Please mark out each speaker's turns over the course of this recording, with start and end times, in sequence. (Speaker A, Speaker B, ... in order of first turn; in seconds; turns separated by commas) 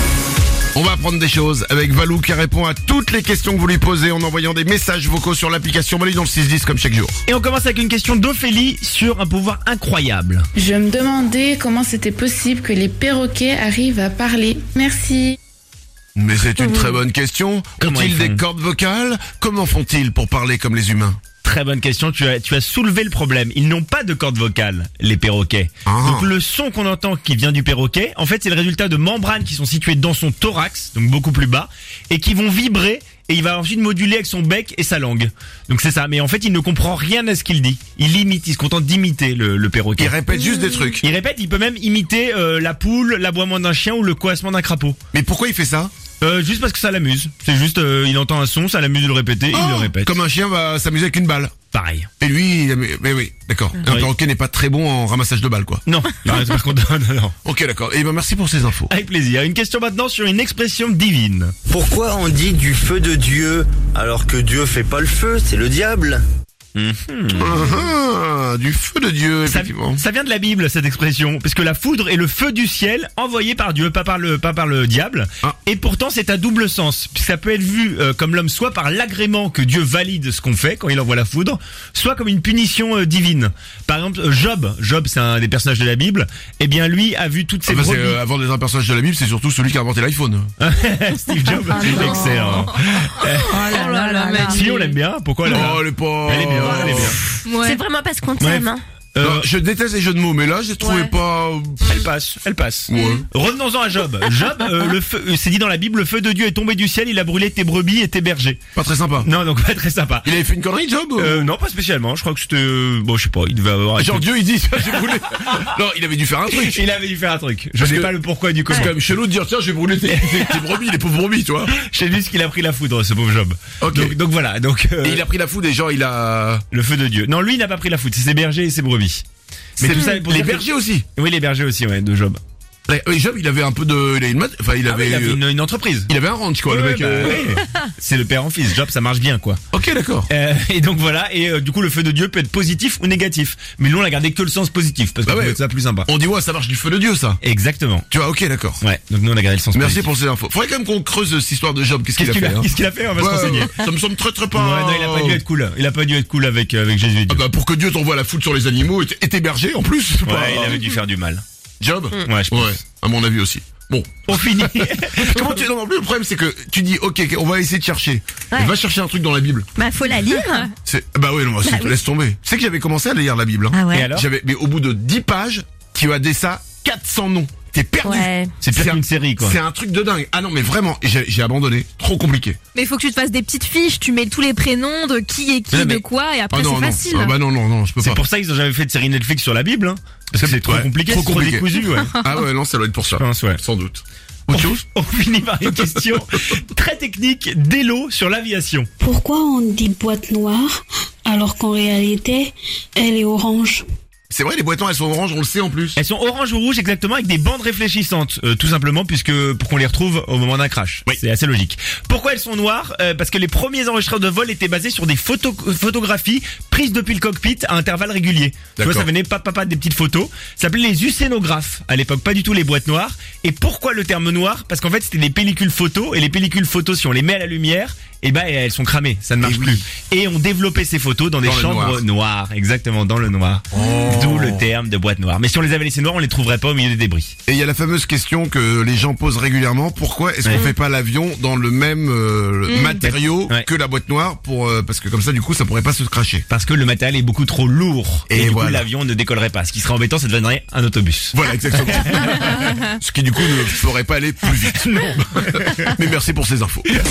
Speaker A: 0.7-7.2, Speaker B: 7.3-10.5, Speaker C: 10.6-15.4, Speaker A: 16.1-21.2, Speaker B: 17.8-18.4, Speaker B: 21.4-40.1, Speaker A: 25.9-26.3, Speaker A: 40.0-41.1, Speaker B: 41.0-45.0, Speaker A: 45.1-45.9, Speaker B: 46.2-50.1, Speaker A: 49.5-51.5, Speaker B: 51.7-52.1, Speaker A: 52.2-55.8, Speaker B: 53.8-54.1, Speaker B: 55.9-57.3, Speaker A: 57.4-58.9, Speaker B: 58.9-61.5, Speaker D: 61.7-66.2, Speaker B: 66.8-67.8, Speaker A: 67.3-70.0, Speaker B: 69.5-88.2, Speaker A: 87.7-90.5, Speaker B: 90.6-93.8, Speaker E: 91.8-92.6, Speaker E: 93.2-94.9, Speaker F: 93.7-94.6, Speaker B: 94.4-97.2, Speaker A: 95.5-97.2, Speaker E: 97.5-97.8, Speaker F: 97.7-98.7, Speaker D: 98.4-98.7, Speaker B: 98.4-99.5, Speaker A: 99.2-102.0, Speaker B: 101.8-108.6, Speaker A: 102.9-103.3, Speaker A: 108.8-109.3, Speaker B: 109.2-110.3, Speaker A: 110.2-111.5, Speaker B: 111.2-115.7, Speaker A: 114.0-116.8, Speaker B: 116.5-119.0, Speaker A: 117.8-121.7, Speaker B: 120.1-120.8, Speaker B: 121.7-125.2, Speaker A: 123.8-124.2, Speaker A: 125.0-126.6, Speaker B: 126.7-129.2, Speaker B: 129.8-132.4, Speaker A: 129.8-131.1, Speaker A: 132.9-135.4, Speaker B: 134.8-136.1, Speaker A: 136.1-137.6, Speaker B: 136.7-139.6, Speaker A: 139.7-140.3, Speaker B: 140.3-146.1, Speaker A: 145.2-147.4, Speaker B: 147.4-148.1, Speaker A: 148.1-148.8, Speaker B: 148.8-150.1, Speaker A: 149.7-155.4, Speaker B: 152.1-153.7, Speaker B: 154.5-157.4, Speaker A: 157.3-160.8, Speaker B: 160.2-161.4, Speaker A: 161.8-169.7, Speaker B: 162.2-162.8, Speaker B: 164.3-165.6, Speaker F: 169.8-170.7, Speaker E: 170.3-170.6, Speaker A: 170.8-182.6, Speaker B: 173.9-174.2, Speaker B: 178.6-179.6, Speaker E: 182.7-187.3, Speaker B: 185.7-186.0, Speaker A: 186.5-188.2, Speaker B: 188.0-192.2, Speaker A: 190.3-194.8, Speaker B: 193.1-193.6, Speaker B: 194.5-198.9, Speaker A: 195.6-196.2, Speaker G: 199.0-203.8, Speaker A: 204.3-206.0, Speaker B: 206.0-237.3, Speaker A: 218.8-219.1, Speaker A: 229.4-229.8, Speaker A: 231.4-232.0, Speaker A: 233.7-234.6, Speaker A: 237.5-246.4, Speaker B: 240.4-240.7, Speaker E: 242.7-243.0, Speaker B: 242.9-243.7, Speaker B: 246.5-252.8, Speaker A: 248.3-248.8, Speaker A: 251.3-256.9, Speaker B: 254.8-255.9